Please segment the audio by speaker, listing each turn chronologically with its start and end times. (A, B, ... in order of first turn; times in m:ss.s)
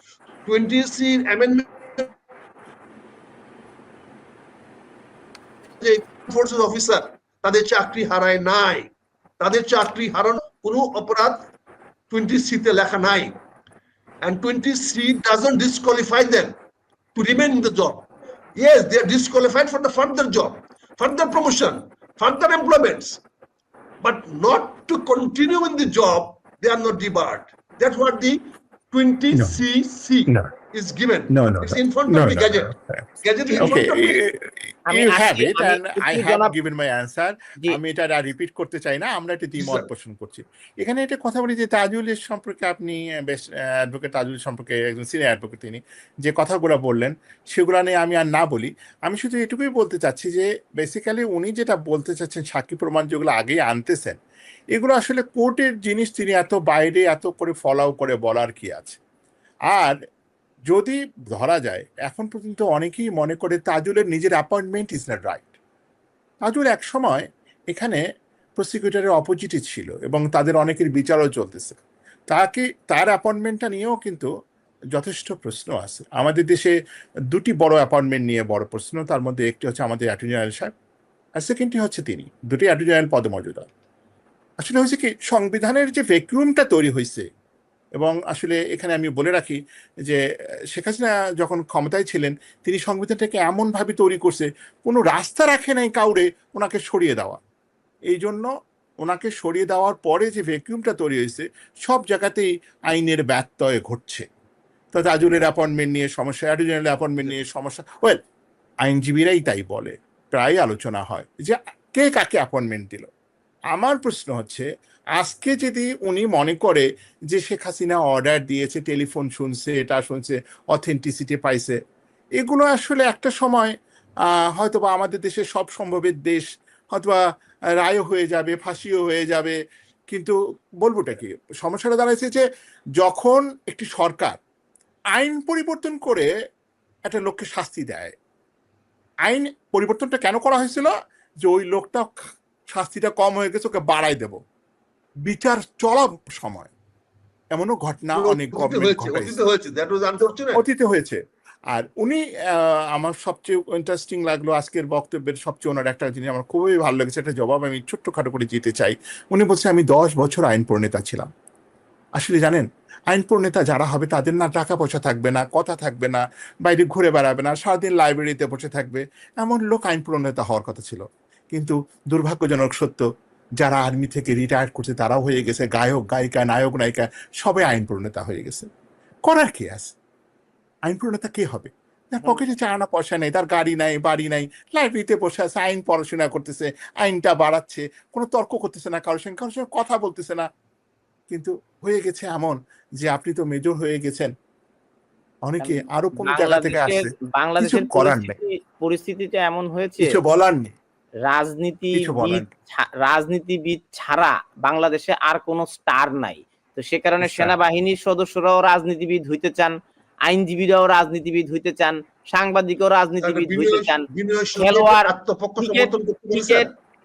0:00.5-0:02.1 A
0:05.8-0:11.4 A
0:12.1-0:13.4 A
0:14.2-0:16.6 A
0:17.2-0:18.1 A
0:18.6-0:23.2 A
0:24.0-0:28.4 A
0:28.9-0:32.7 A
0:29.3-0:29.6 B
0:31.3-0:54.2 B
0:33.2-0:34.2 A
0:34.9-0:36.5 C
0:39.6-0:39.9 A
0:54.7-0:59.0 B
1:00.7-1:05.6 B
1:06.5-1:08.0 B
1:08.6-1:14.3 B
1:14.9-1:16.7 B
1:17.3-1:20.7 B
1:21.4-1:23.7 B
1:24.6-1:27.3 B
1:28.0-1:30.2 B
1:30.7-1:37.4 B
1:38.1-1:38.5 B
1:39.0-1:44.3 B
1:44.9-1:48.2 B
1:48.8-1:53.1 B
1:53.7-1:54.7 B
1:55.2-2:01.8 B
2:02.4-2:03.7 B
2:04.3-2:07.2 B
2:07.8-2:09.6 B
2:10.1-2:12.4 B
2:13.0-2:14.4 B
2:15.1-2:16.3 B
2:17.1-2:18.2 B
2:19.2-2:20.9 B
2:21.4-2:24.4 B
2:25.2-2:26.7 B
2:27.5-2:29.4 B
2:28.2-2:30.6 A
2:30.6-2:41.3 B
2:42.2-2:53.0 B
2:53.6-2:58.7 B
2:59.3-2:59.9 B
3:00.9-3:10.5 B
3:11.3-3:14.3 B
3:15.5-3:18.4 B
3:15.6-3:20.2 C
3:20.0-3:20.7 B
3:21.2-3:29.7 C
3:22.0-3:22.5 B
3:27.2-3:27.5 B
3:30.3-3:34.0 C
3:33.2-3:36.7 A
3:34.6-3:35.1 C
3:35.6-3:36.7 C